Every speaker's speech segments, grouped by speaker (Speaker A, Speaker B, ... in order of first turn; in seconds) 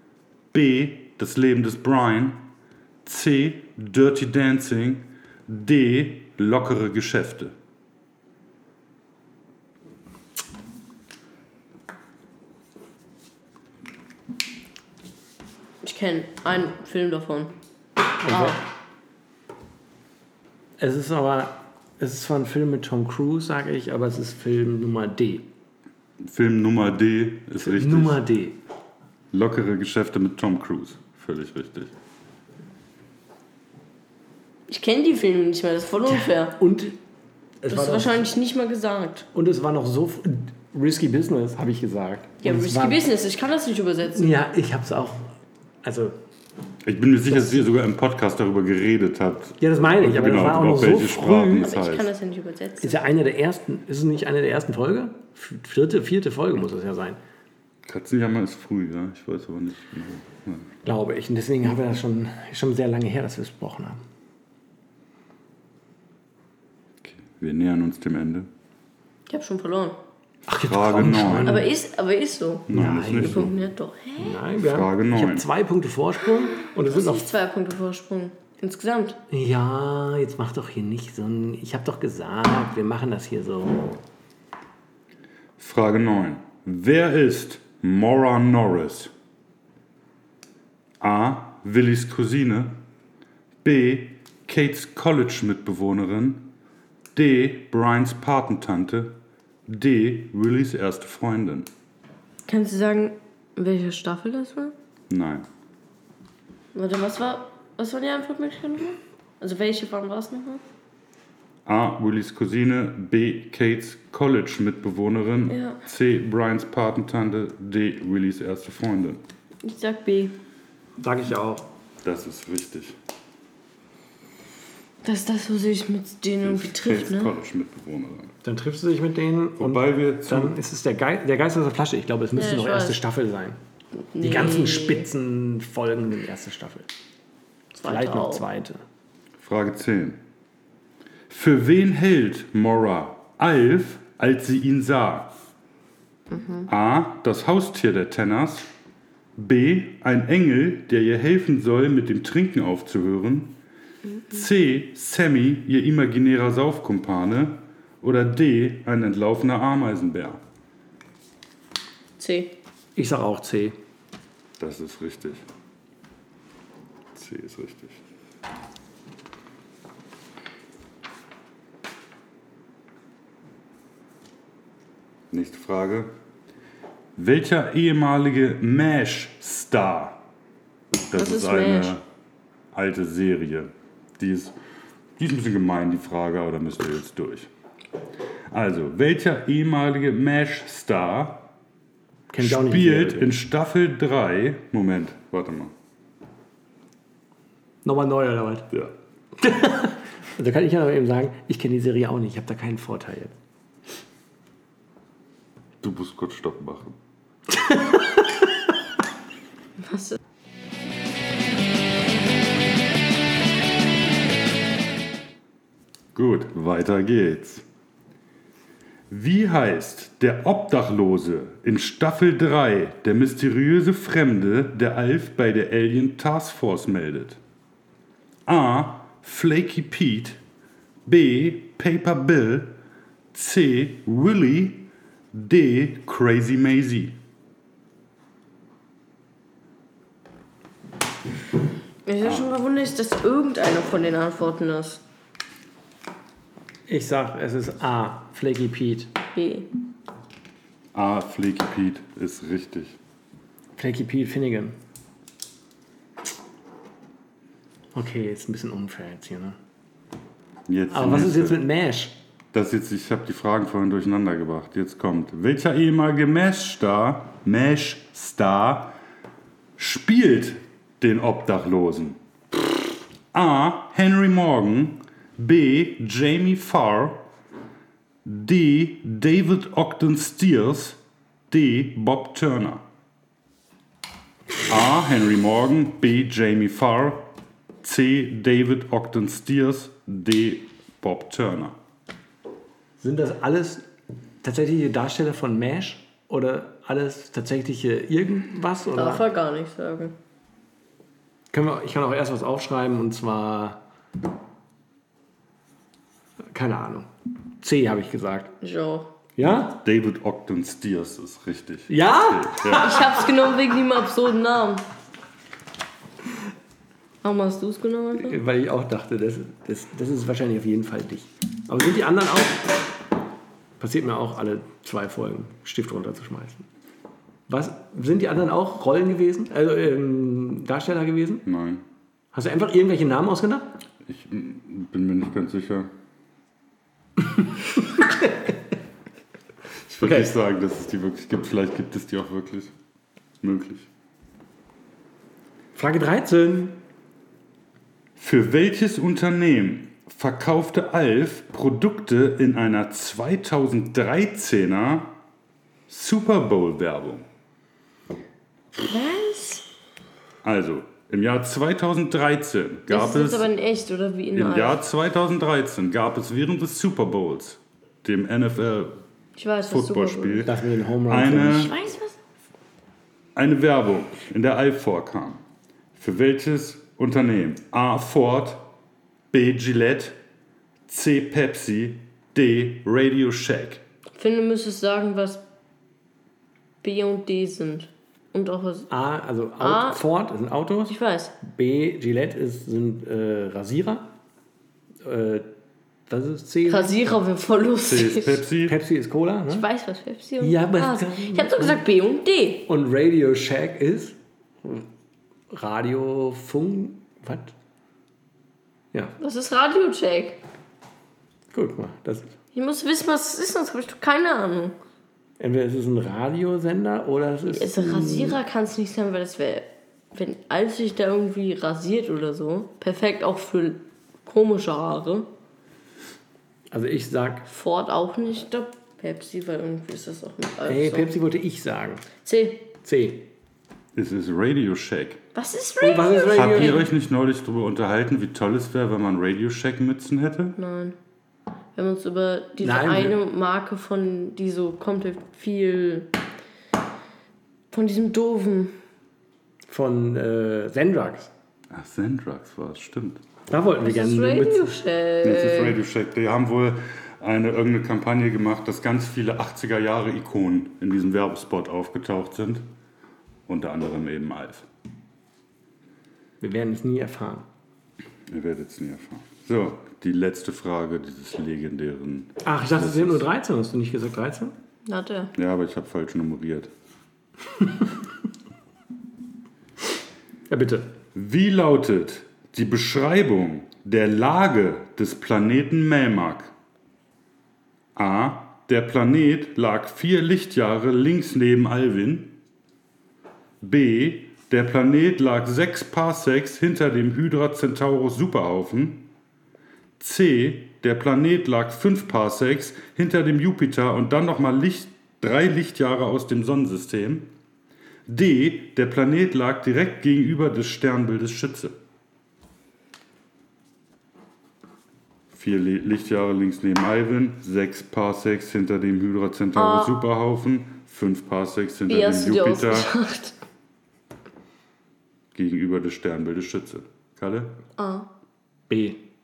Speaker A: 0.5-2.4, 3.0-7.5, 26.2-28.2, 29.3-31.9, 46.8-52.1, 57.9-60.7, 67.0-68.5, 70.6-71.7, 72.7-73.5, 74.6-75.5, 85.6-89.1, 91.0-92.7, 93.6-96.4, 97.1-99.1, 99.7-101.7, 105.1-105.5, 111.7-119.2, 122.0-123.0, 126.4-128.3, 129.6-130.6, 139.4-140.2, 141.3-145.3, 146.7-148.7, 149.4-153.6, 154.3-160.4, 164.6-165.4, 167.1-168.0, 175.3-176.1, 177.2-180.2, 181.1-182.0, 182.7-184.5, 185.2-187.5, 188.5-191.4, 192.4-195.7, 205.8-206.9, 216.1-217.6, 219.1-227.4, 228.5-230.4, 231.1-232.7, 233.3-237.1, 242.2-242.5, 250.9-253.0, 260.7-261.6, 262.5-268.9, 269.8-272.2, 273.3-277.2, 278.2-281.0, 281.5-282.8, 284.7-287.3, 287.8-291.7, 309.4-312.9, 331.4-331.8, 334.1-335.9, 339.8-342.7, 343.4-343.9, 348.2-355.1, 355.9-357.2, 360.4-363.5, 364.3-368.9, 369.7-370.6, 371.1-371.7, 373.4-375.4, 376.0-378.7, 379.3-380.2, 380.9-383.8, 397.8-398.8, 433.9-435.2, 436.3-440.6, 451.7-453.2, 455.2-462.6, 463.5-464.7, 468.3-473.3, 475.4-476.7, 481.1-486.5, 487.9-492.3, 493.6-499.1, 500.0-507.3, 508.1-511.8, 515.3-522.9, 525.3-527.5
Speaker B: 15.8-17.5, 18.3-18.6, 34.7-36.6, 37.7-39.3, 42.4-44.3, 51.6-53.1, 69.3-70.0, 71.5-74.4, 76.5-79.2, 102.5-104.7, 106.7-110.6, 115.5-115.8, 119.6-120.3, 125.0-127.3, 132.3-133.0, 134.1-135.1, 137.7-138.4, 146.3-146.7, 162.2-162.6, 181.1-181.9, 209.8-210.2, 242.1-245.0, 249.3-249.7, 298.9-300.1, 308.6-309.1, 312.7-314.8, 317.2-318.4, 358.8-359.6, 362.9-364.8, 369.4-370.5, 371.5-372.2, 384.2-385.4, 386.8-388.9, 389.6-390.0, 390.9-391.3, 396.7-398.4, 399.5-402.7, 409.2-410.4, 412.5-414.7, 417.5-425.3, 427.5-431.1, 432.2-432.7, 435.3-436.9, 440.6-440.9, 441.7-446.1, 447.7-448.8, 453.8-455.8, 474.8-475.3, 519.5-520.0, 521.9-523.3, 527.8-528.1
Speaker C: 18.2-18.6, 20.8-25.5, 27.6-28.6, 36.0-37.0, 37.6-38.2, 39.3-43.0, 44.1-46.2, 47.3-47.6, 49.6-51.7, 52.8-57.2, 60.8-64.0, 70.5-71.7, 72.7-73.5, 74.2-77.3, 79.3-84.0, 121.0-121.7, 128.4-133.6, 134.2-136.9, 137.8-138.8, 162.9-163.8, 192.3-193.3, 197.8-198.7, 199.4-203.3, 207.5-208.5, 246.9-249.1, 253.8-254.8, 257.9-259.6, 260.9-262.2, 293.0-293.9, 294.4-299.3, 301.5-303.8, 306.5-308.5, 309.4-309.8, 311.9-313.2, 318.2-322.9, 323.8-326.6, 327.5-331.4, 332.3-333.7, 340.0-340.3, 345.7-346.8, 370.4-371.7, 388.9-394.1, 395.0-395.5, 396.1-396.9, 398.7-399.7, 400.4-401.8, 402.7-404.9, 405.5-407.5, 411.5-412.3, 415.4-418.4, 426.7-427.5, 430.7-432.1, 432.8-433.3, 435.8-436.9, 442.6-443.2, 449.7-451.3, 453.5-454.8, 466.4-467.4, 472.4-474.5, 480.5-480.9, 528.7-529.0